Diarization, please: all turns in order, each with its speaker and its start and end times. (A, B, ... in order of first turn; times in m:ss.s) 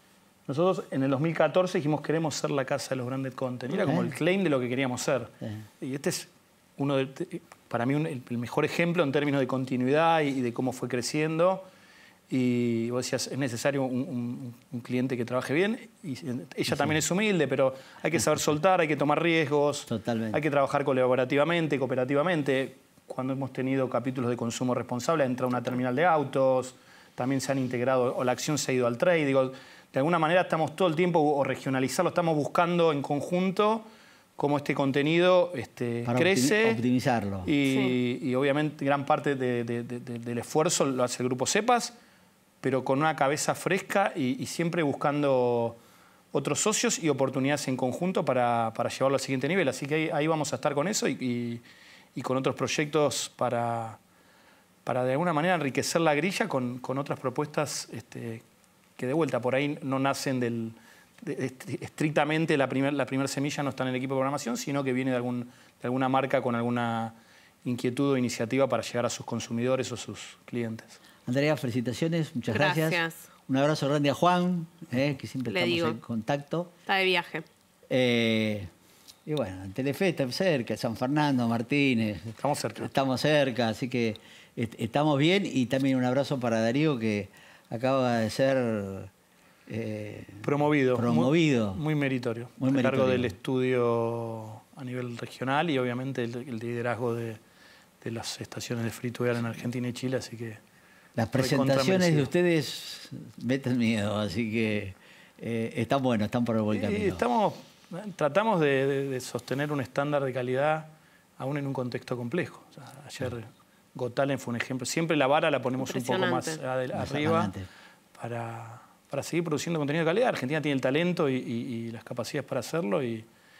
0:00.5-0:11.6 A
0:03.8-0:04.2 B
0:12.3-0:33.9 A
0:19.9-0:20.4 B
0:34.4-0:36.8 A
0:36.1-0:37.5 B
0:37.4-0:42.0 A
0:37.7-0:37.9 C
0:42.6-0:45.8 A
0:46.3-0:51.6 A
0:52.2-0:54.0 A
0:54.8-0:58.4 A
0:59.0-1:11.0 A
1:11.3-1:16.7 B
1:12.5-1:13.3 C
1:15.5-1:16.0 C
1:16.9-1:17.5 C
1:17.9-1:18.7 B
1:19.3-1:29.1 B
1:22.4-1:22.9 A
1:29.7-1:31.8 B
1:30.4-1:37.4 A
1:32.6-1:33.4 B
1:38.0-1:40.6 A
1:41.2-1:47.2 B
1:41.4-1:42.3 A
1:46.7-1:57.5 A
1:55.8-1:56.6 C
1:56.9-1:57.7 B
1:58.2-2:03.3 A